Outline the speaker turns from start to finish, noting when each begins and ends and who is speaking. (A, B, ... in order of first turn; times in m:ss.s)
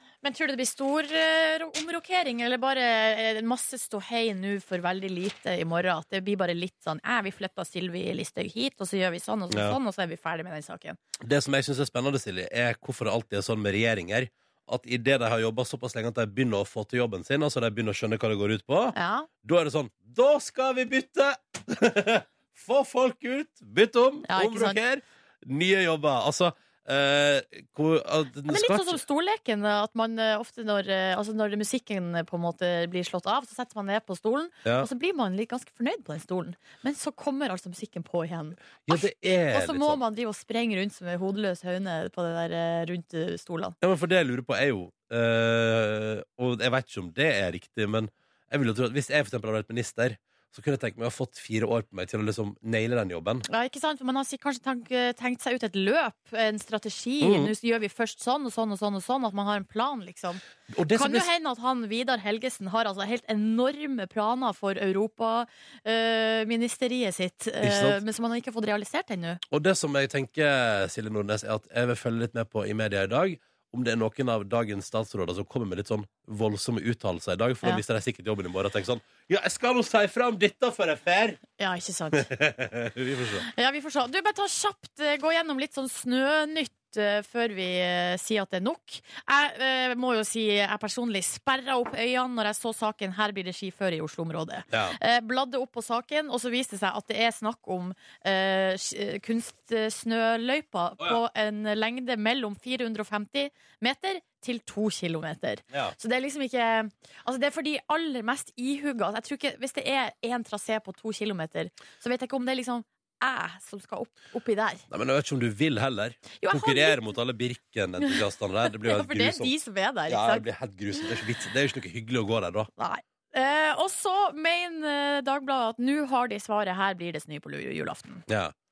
0:00.2-0:11.0 A
0:09.5-0:09.8 B
0:11.2-0:29.0 B
0:18.9-0:19.3 A
0:24.3-0:24.8 A
0:28.5-0:43.8 A
0:38.9-0:40.0 B
0:43.8-0:53.4 B
0:53.5-1:00.4 A
0:57.2-0:57.5 B
1:00.7-1:01.3 B
1:00.9-1:09.4 A
1:07.6-1:08.0 B
1:09.5-1:21.4 B
1:21.6-1:22.3 A
1:22.1-1:23.4 B
1:23.5-1:54.8 A
1:34.7-1:35.0 B
1:54.9-1:59.5 B
1:56.4-1:57.0 A
1:58.8-2:00.4 A
2:00.1-2:02.7 B
2:02.8-2:08.2 A
2:08.3-2:08.5 B